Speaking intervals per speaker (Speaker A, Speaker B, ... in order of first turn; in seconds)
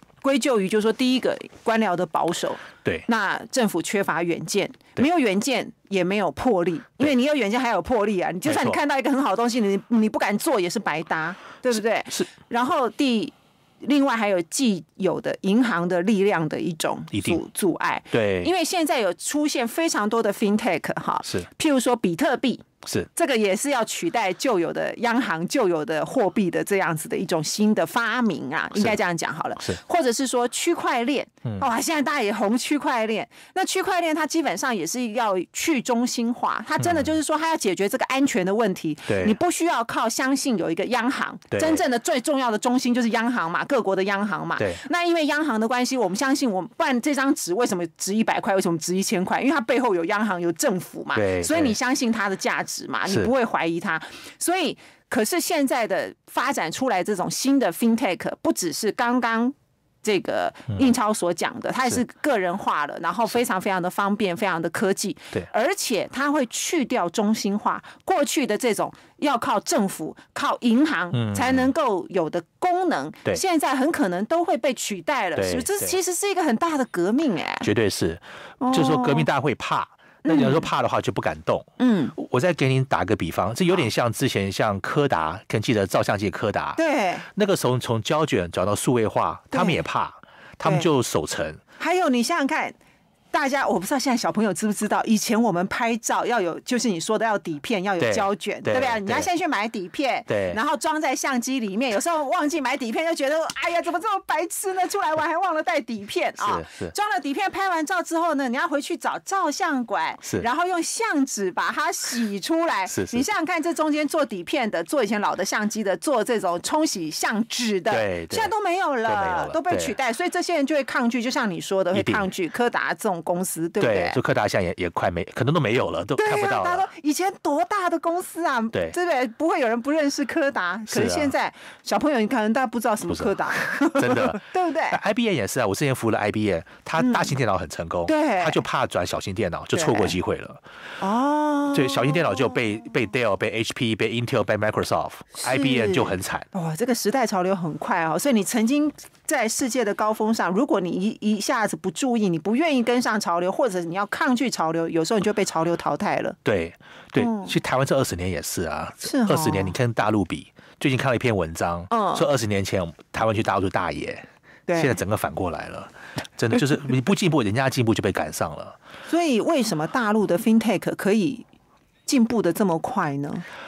Speaker A: 0.2-77.7, 78.6-79.3, 80.2-80.7, 81.8-82.1, 86.8-87.2, 89.5-89.8, 91.8-92.8, 93.3-124.2, 126.2-135.0, 137.0-137.3, 138.1-138.6, 139.7-140.1, 141.0-142.6, 145.3-156.4, 157.2-157.5, 159.0-159.7, 161.9-162.3, 164.7-165.0, 169.1-171.4, 172.1-173.4
Speaker B: 8.4-8.8, 17.1-17.4, 18.1-18.5, 22.8-23.1, 36.8-37.1, 39.1-39.4, 41.5-41.8, 44.6-44.8, 51.1-51.8, 71.1-71.7, 75.3-76.0, 77.6-86.8, 87.3-91.6, 98.0-99.3, 100.3-100.6, 106.4-106.9, 112.9-113.2, 117.9-118.5, 119.0-120.0, 121.9-122.3, 123.8-126.8, 130.9-131.3, 133.1-140.6, 141.7-146.5, 156.4-168.8